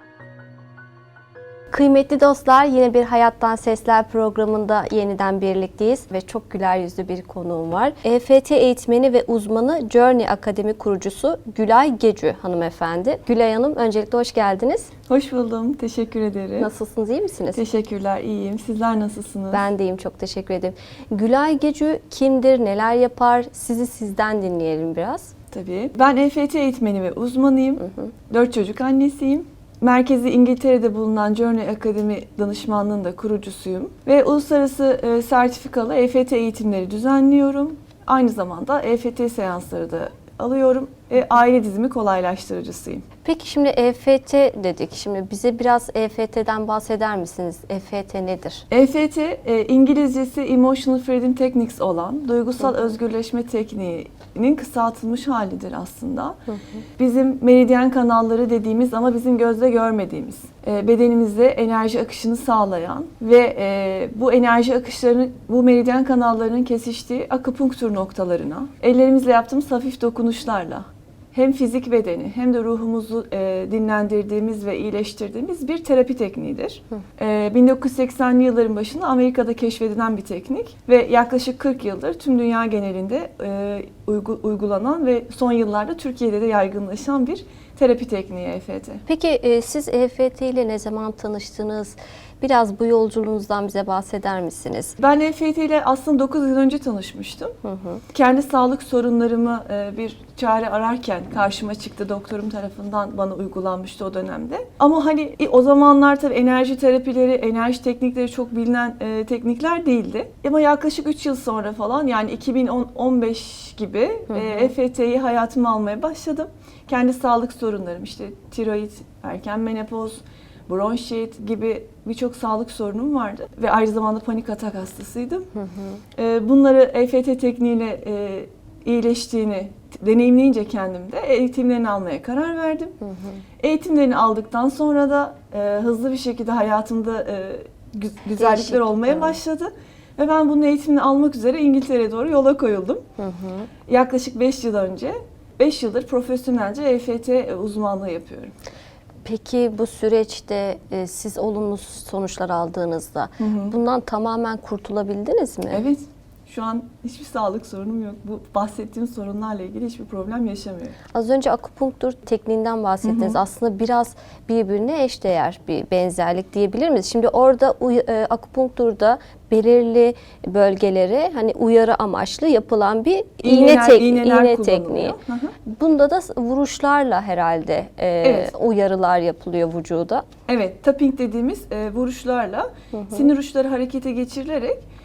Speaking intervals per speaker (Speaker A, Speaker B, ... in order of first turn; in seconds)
Speaker A: 1.7-14.9, 16.6-17.6, 19.5-25.3, 27.8-28.1, 43.2-48.6, 56.5-56.8, 89.1-95.0, 97.6-98.0, 114.3-114.7, 125.5-126.0, 133.0-133.4, 138.4-139.4, 143.2-143.7, 149.2-155.8, 161.1-180.2, 182.9-183.3
Speaker B: 15.1-16.7, 17.5-19.6, 25.5-43.0, 48.7-56.4, 57.0-89.0, 95.0-97.6, 98.1-125.5, 126.2-133.0, 133.6-143.0, 143.9-148.5, 153.4-153.8, 155.7-161.0, 163.0-163.4, 173.4-175.6, 178.2-178.5, 180.5-184.8